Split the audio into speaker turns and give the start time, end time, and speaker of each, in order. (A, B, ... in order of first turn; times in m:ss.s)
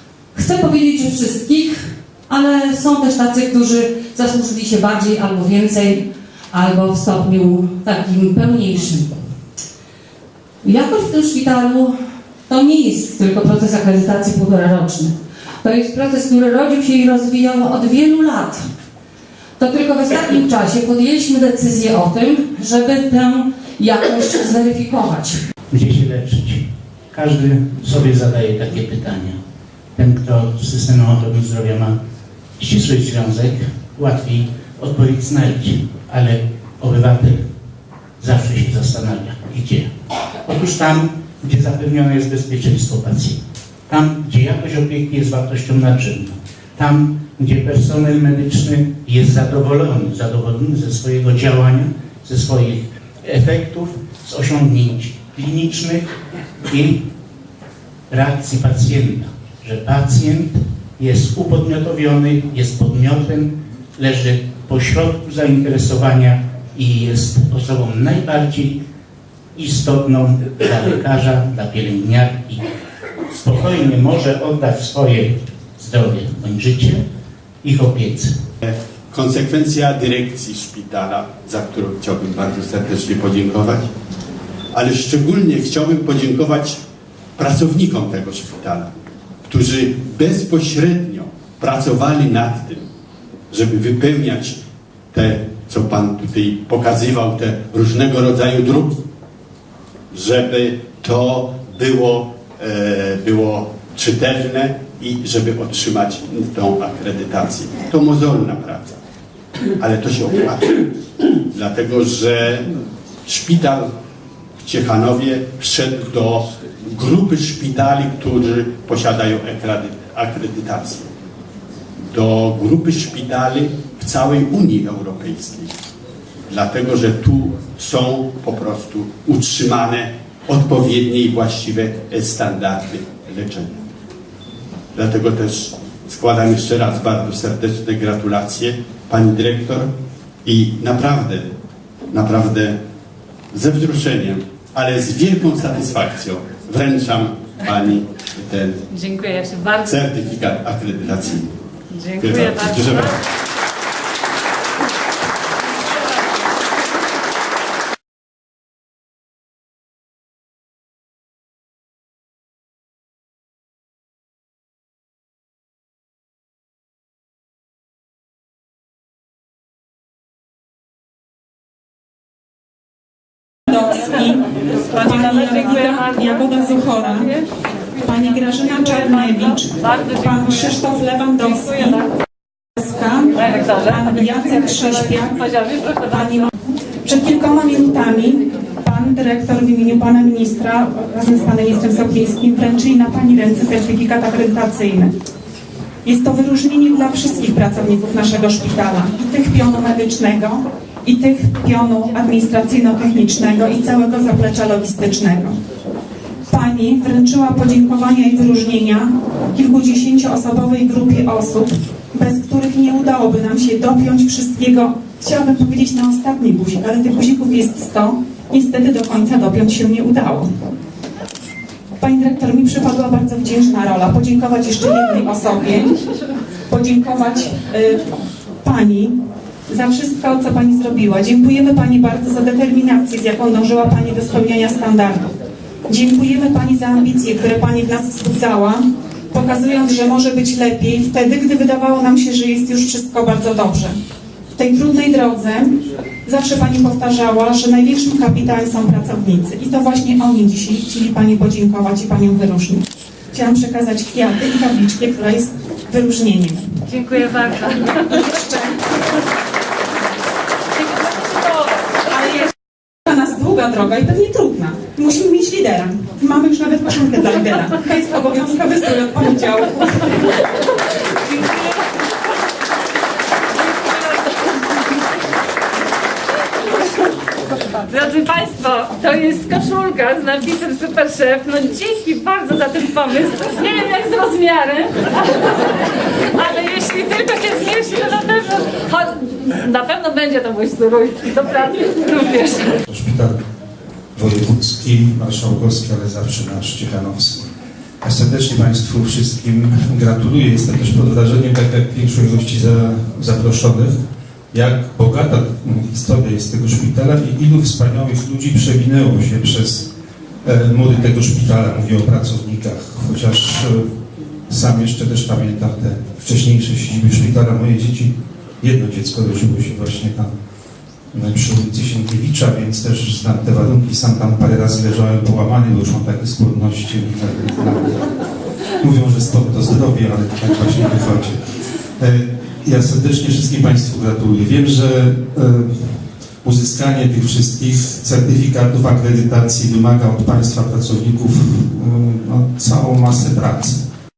0:00.3-0:09.2 A
0:10.6-0:18.6 A
0:19.6-0:25.4 A
0:25.7-0:29.4 B
0:29.9-0:32.0 B
0:32.6-0:37.5 B
0:38.2-0:39.9 B
0:40.4-0:56.1 B
0:56.7-0:57.0 B
0:58.1-1:08.8 B
1:09.5-1:12.6 B
1:13.3-1:17.0 B
1:17.6-1:18.3 B
1:18.6-1:23.9 C
1:24.7-1:26.8 C
1:27.4-1:28.9 C
1:29.5-1:32.9 C
1:33.5-1:34.6 C
1:35.1-1:39.0 C
1:40.1-1:49.0 C
1:49.8-1:52.7 C
1:53.2-1:53.9 C
1:54.6-2:01.1 C
2:02.0-2:05.7 C
2:06.5-2:13.8 C
2:14.9-2:19.9 C
2:20.4-2:21.5 C
2:22.1-2:22.8 C
2:23.5-2:28.8 C
2:29.0-2:29.7 D
2:29.6-2:31.5 C
2:31.9-2:33.0 D
2:32.2-2:33.2 C
2:53.7-2:57.4 E
2:58.0-3:02.2 E
3:02.8-3:15.1 E
3:16.0-3:25.6 E
3:26.5-3:40.5 E
3:42.0-3:46.0 E
3:46.7-3:48.0 E
3:48.6-3:49.2 E
3:49.7-3:55.3 E
3:55.9-4:04.0 E
4:04.5-4:16.6 E
4:16.9-4:18.2 D
4:17.9-4:18.8 E
4:20.8-4:21.8 D
4:22.1-4:22.5 E
4:23.0-4:30.4 E
4:31.3-4:31.8 D
4:37.8-4:52.8 D
4:52.9-4:53.4 F
4:54.1-4:57.4 F
4:58.0-5:04.0 F
5:04.5-5:09.9 F
5:10.4-5:13.8 F
5:14.5-5:20.3 F
5:21.1-5:28.0 F
5:28.8-5:31.4 F
5:32.0-5:43.8 F